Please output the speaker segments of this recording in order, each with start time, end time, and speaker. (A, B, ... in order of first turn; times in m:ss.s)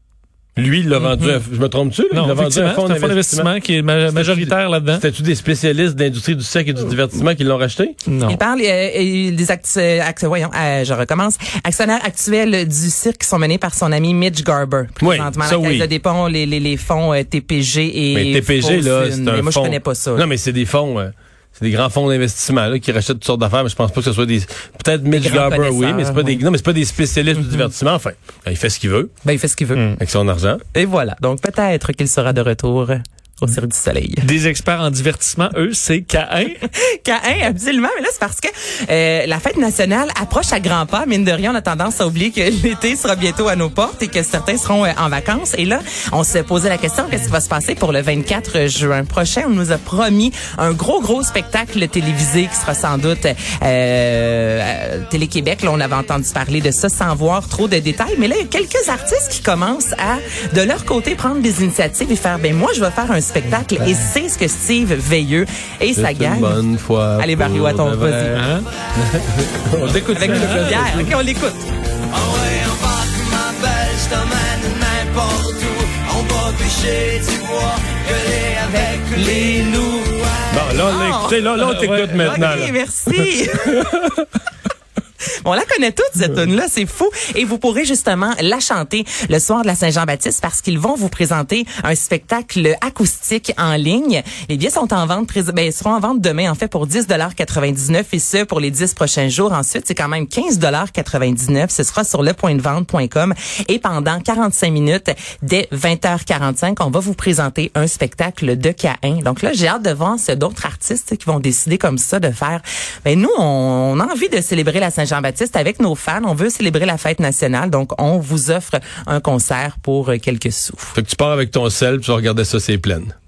0:00.6-0:03.5 A
0:01.0-0:01.4 B
0:02.1-0:05.0 C
0:04.1-0:08.0 A
0:08.1-0:08.4 C
0:08.2-0:20.2 B
0:15.0-0:15.9 A
0:18.1-0:29.1 A
0:25.1-0:26.4 B
0:27.4-0:27.7 B
0:29.2-0:29.8 B
0:29.7-0:30.0 C
0:30.0-0:30.6 A
0:30.7-0:34.3 B
0:34.2-0:36.6 C
0:36.6-1:06.6 B
1:06.0-1:11.2 A
1:07.2-1:08.4 B
1:08.3-1:08.7 C
1:10.1-1:11.7 B
1:10.2-1:10.7 C
1:12.2-1:20.5 D
1:18.6-1:19.9 B
1:20.5-1:22.7 A
1:20.8-1:21.5 B
1:21.6-1:22.7 C
1:22.2-1:23.9 B
1:23.8-1:24.2 A
1:25.4-2:01.0 B
2:01.0-2:03.2 A